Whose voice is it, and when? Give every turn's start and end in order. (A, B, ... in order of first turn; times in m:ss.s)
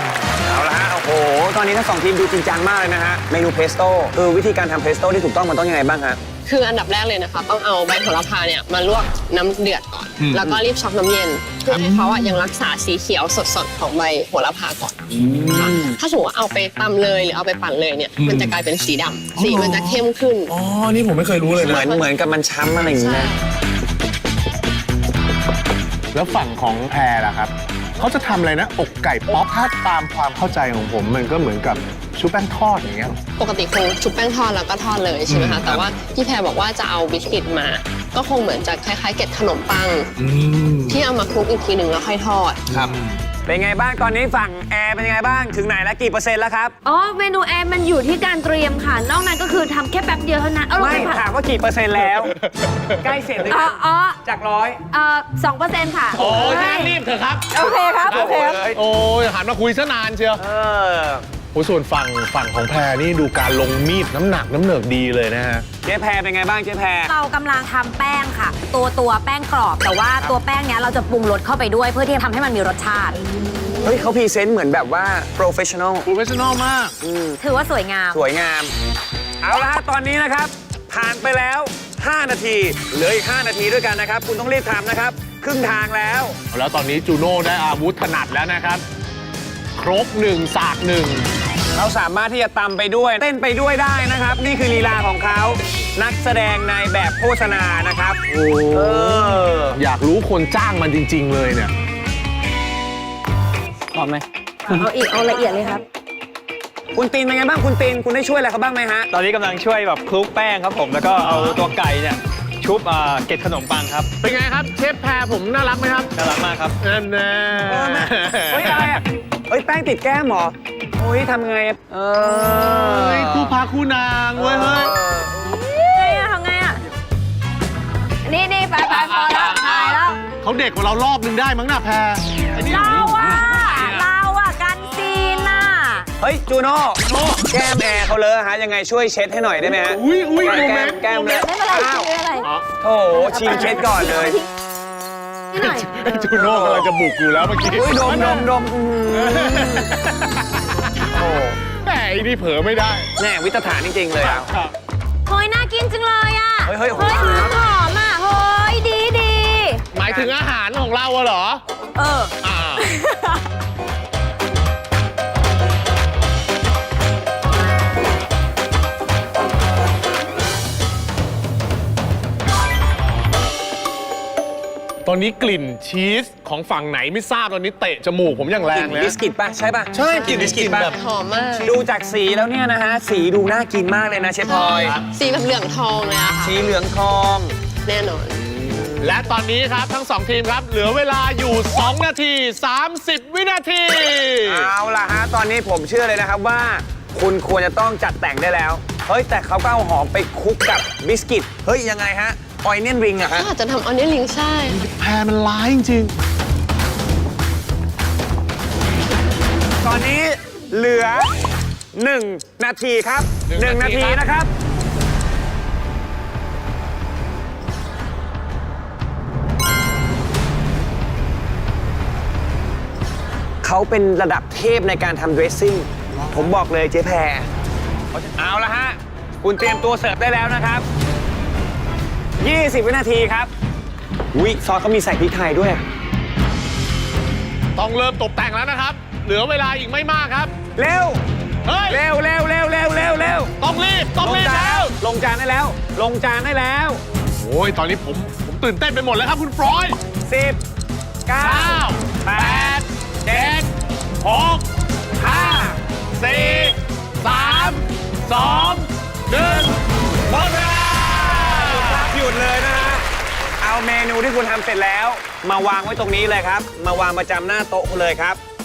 0:00.4-0:06.2 A
0:06.4-0:20.5 B
0:10.2-0:10.5 C
0:11.8-0:12.3 C
0:15.2-0:15.6 C
0:18.2-0:18.6 C
0:19.3-0:21.8 C
0:21.6-0:23.3 A
0:21.7-0:22.0 B
0:22.9-0:23.4 B
0:26.1-0:33.2 C
0:33.4-0:40.1 B
0:35.3-0:35.8 C
0:40.2-0:41.0 C
0:40.9-0:42.6 B
0:42.7-0:43.1 C
0:43.4-0:46.7 A
0:46.8-0:51.2 D
0:50.8-0:52.3 A
0:52.4-0:52.9 C
0:53.0-0:54.8 A
0:53.5-0:54.2 D
0:54.9-0:57.0 D
0:56.1-1:00.4 C
0:57.5-0:58.7 D
0:57.6-0:58.8 A
1:00.4-1:01.2 A
1:01.5-1:05.6 C
1:05.8-1:07.1 A
1:07.1-1:13.2 E
1:13.8-1:16.1 A
1:16.1-1:17.0 C
1:17.0-1:17.4 A
1:17.4-1:18.2 E
1:18.1-1:18.7 A
1:19.4-1:26.4 A
1:26.5-1:28.8 C
1:29.8-1:31.3 C
1:31.7-1:38.2 A
1:38.3-1:41.7 C
1:38.7-1:39.8 A
1:43.9-1:44.8 F
1:44.7-1:45.8 D
1:46.9-1:49.1 A
1:49.1-1:54.1 F
1:51.2-1:51.5 C
1:54.2-1:56.1 C
1:56.1-1:56.8 F
1:56.8-1:58.9 C
1:57.7-2:01.8 A
2:01.9-2:03.5 F
2:02.9-2:04.9 C
2:04.4-2:04.7 F
2:05.9-2:06.8 E
2:06.0-2:06.3 D
2:08.2-2:10.2 D
2:08.8-2:14.0 C
2:12.6-2:16.1 E
2:16.2-2:22.1 A
2:17.1-2:17.4 C
2:19.7-2:21.4 C
2:21.4-2:22.5 D
2:22.4-2:22.7 C
2:22.8-2:24.4 A
2:23.4-2:24.3 D
2:25.5-2:28.5 C
2:26.3-2:26.9 A
2:27.7-2:29.9 A
2:29.1-2:31.0 C
2:31.1-2:31.6 A
2:31.7-2:33.1 C
2:33.2-2:34.5 A
2:34.2-2:34.7 C
2:35.2-2:39.8 E
2:36.6-2:37.6 A
2:39.9-2:41.6 C
2:40.0-2:40.3 A
2:42.0-2:43.4 E
2:42.4-2:42.8 C
2:55.0-2:59.1 C
2:58.7-3:00.9 A
3:00.0-3:00.9 C
3:00.1-3:01.7 B
3:01.6-3:05.0 A
3:04.4-3:06.6 B
3:06.4-3:07.5 A
3:07.8-3:08.4 B
3:09.0-3:14.7 C
3:14.4-3:23.5 A
3:23.4-3:24.9 B
3:24.7-3:26.1 C
3:29.8-3:31.3 A
3:31.9-3:34.5 A
3:33.5-3:34.2 C
3:43.6-3:47.5 A
3:48.1-3:50.8 A
3:52.4-3:53.5 A
3:54.3-3:55.8 A
3:57.8-4:00.5 C
4:00.8-4:01.2 A
4:01.6-4:02.0 C
4:01.9-4:03.5 A
4:03.6-4:04.9 C
4:04.2-4:07.0 A
4:07.4-4:10.0 C
4:10.2-4:10.6 A
4:11.2-4:13.6 A
4:11.4-4:13.7 C
4:14.2-4:14.6 C
4:15.2-4:15.8 A
4:15.2-4:19.7 C
4:16.3-4:16.7 A
4:17.3-4:17.8 A
4:20.3-4:23.0 A
4:21.1-4:22.1 C
4:23.6-4:28.4 A